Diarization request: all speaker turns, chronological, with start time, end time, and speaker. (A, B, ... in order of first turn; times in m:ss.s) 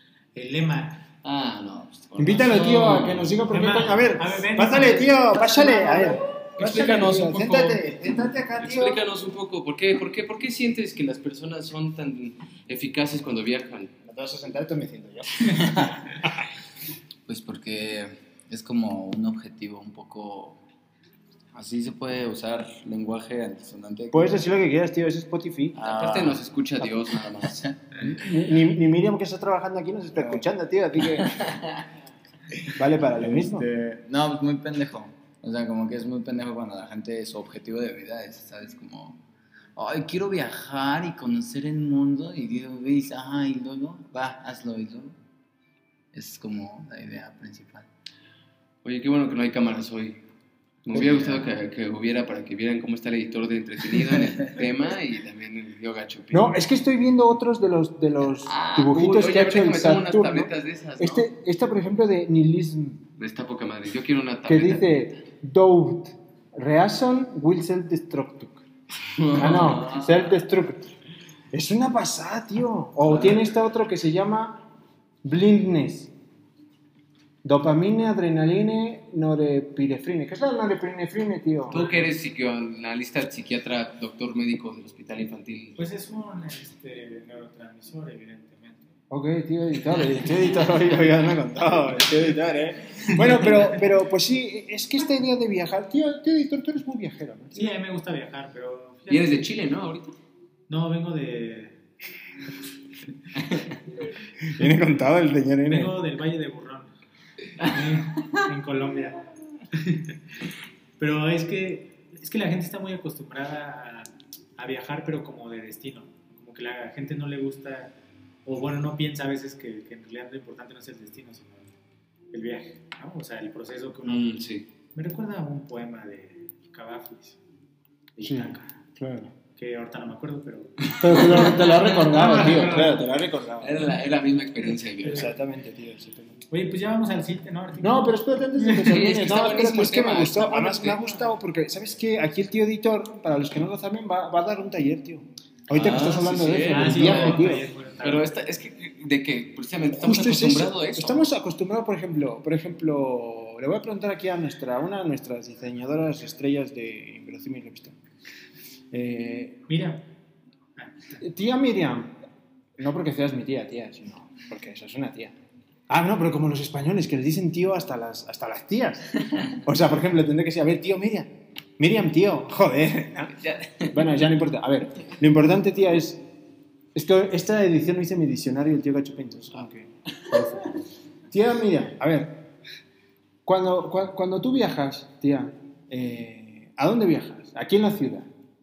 0:00.3-0:01.0 A
0:01.2-0:03.4 B
0:02.2-0:09.0 C
0:02.3-0:06.2 A
0:06.6-0:07.9 B
0:08.6-0:13.9 B
0:14.0-0:16.4 C
0:15.4-0:16.0 D
0:17.3-0:20.6 D
0:21.5-0:24.5 D
0:24.1-0:25.8 C
0:25.8-0:27.8 D
0:25.8-0:27.6 B
0:28.0-0:31.4 C
0:31.2-0:31.8 D
0:32.6-0:39.2 D
0:32.7-0:33.7 C
0:39.8-0:45.2 D
0:46.1-0:47.9 D
0:48.8-0:50.2 B
0:50.8-0:56.6 B
0:50.9-0:51.3 C
0:56.3-1:03.0 C
0:58.4-1:01.3 B
1:03.2-1:05.2 B
1:04.4-1:08.6 C
1:09.2-1:10.2 B
1:09.3-1:10.9 C
1:11.5-1:14.6 C
1:13.1-1:13.4 B
1:15.2-1:16.1 C
1:17.4-1:21.8 C
1:21.7-1:25.8 B
1:21.7-1:22.0 A
1:25.8-1:28.9 A
1:29.1-1:37.7 C
1:33.0-1:33.7 A
1:37.5-1:39.4 A
1:39.1-1:40.2 B
1:40.7-1:41.8 A
1:43.3-1:43.8 B
1:44.4-1:46.0 C
1:45.7-1:46.9 A
1:47.6-1:50.2 A
1:51.0-1:57.9 A
1:58.4-2:01.7 A
2:02.3-2:04.3 A
2:04.0-2:04.6 B
2:04.9-2:07.4 A
2:08.1-2:08.7 A
2:08.2-2:09.3 C
2:09.5-2:13.0 A
2:11.0-2:13.8 C
2:11.7-2:12.7 B
2:13.6-2:15.3 B
2:15.0-2:15.3 A
2:15.1-2:16.4 C
2:16.5-2:19.0 A
2:17.8-2:27.6 C
2:18.8-2:21.0 B
2:25.7-2:31.3 B
2:26.7-2:28.3 A
2:29.9-2:38.0 C
2:38.9-2:39.6 C
2:39.7-2:40.0 A
2:40.8-2:41.2 A
2:41.2-2:42.1 C
2:42.8-2:45.4 C
2:45.9-2:53.4 C
2:53.4-2:54.0 B
2:53.9-2:56.2 C
2:56.9-3:00.7 C
3:01.3-3:02.4 C
3:03.4-3:08.3 C